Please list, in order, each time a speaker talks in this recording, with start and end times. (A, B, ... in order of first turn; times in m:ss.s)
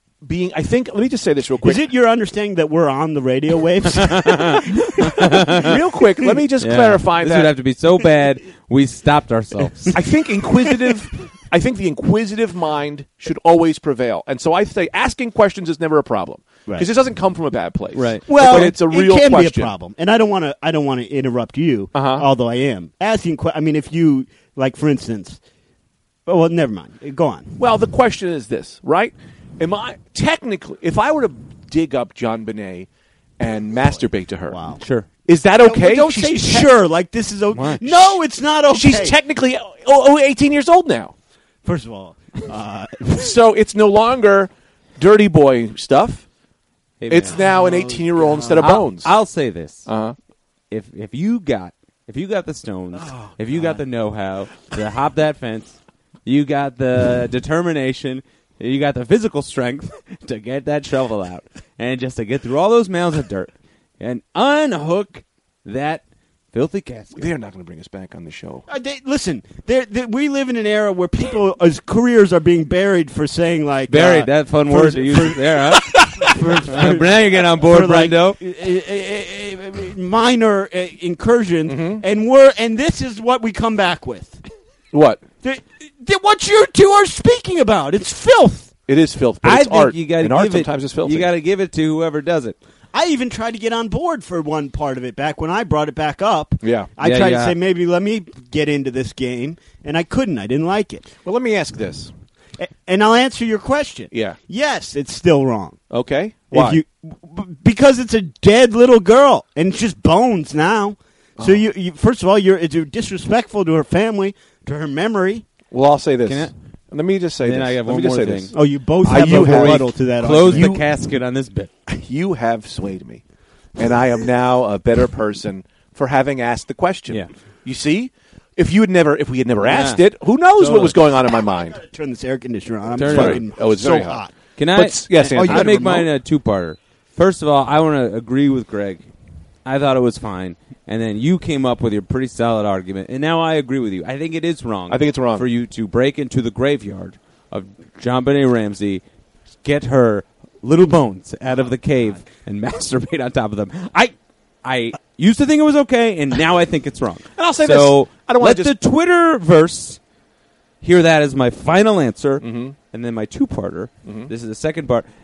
0:00.2-0:01.8 A
0:01.6-0:05.7 B
0:03.9-0:05.7 C
0:05.5-0:07.5 A
0:06.6-0:10.0 C
0:09.9-0:19.7 A
0:17.9-0:18.7 C
0:18.3-0:25.4 B
0:21.9-0:22.3 A
0:26.2-0:27.6 B
0:27.6-0:32.9 A
0:33.4-0:34.6 A
0:34.5-0:34.8 B
0:34.8-0:35.1 C
0:35.2-0:36.7 A
0:35.6-0:39.2 B
0:37.5-0:37.8 C
0:38.7-0:41.1 A
0:41.6-0:43.4 B
0:43.1-0:46.2 A
0:47.0-0:47.4 C
0:47.1-0:49.1 A
0:47.3-0:48.8 B
0:48.6-0:49.9 C
0:49.9-0:50.1 A
0:50.7-1:07.3 C
0:53.0-0:53.8 B
1:07.2-1:08.6 A
1:08.7-1:24.4 B
1:13.9-1:18.4 C
1:21.7-1:22.0 A
1:24.9-1:25.2 A
1:25.4-1:28.7 B
1:28.9-1:31.3 A
1:29.4-1:32.6 C
1:32.9-1:41.1 B
1:36.6-1:36.9 A
1:37.0-1:37.5 C
1:41.2-1:42.1 A
1:42.6-1:45.8 B
1:44.1-1:44.4 A
1:45.9-1:46.8 A
1:46.5-1:55.4 B
1:55.7-2:00.8 A
1:56.2-1:56.5 C
1:57.4-1:58.5 C
1:58.5-2:00.8 B
1:59.1-2:01.7 C
2:01.9-2:03.2 A
2:03.8-2:11.8 A
2:09.7-2:10.0 C
2:10.6-2:14.3 B
2:13.0-2:13.4 C
2:13.0-2:14.2 A
2:14.6-2:19.0 C
2:14.7-2:16.1 A
2:15.3-2:16.0 B
2:19.6-2:29.0 C
2:24.9-2:25.4 A
2:29.6-2:40.0 C
2:37.4-2:38.7 A
2:40.8-2:45.0 C
2:42.4-2:42.8 A
2:44.0-2:44.3 A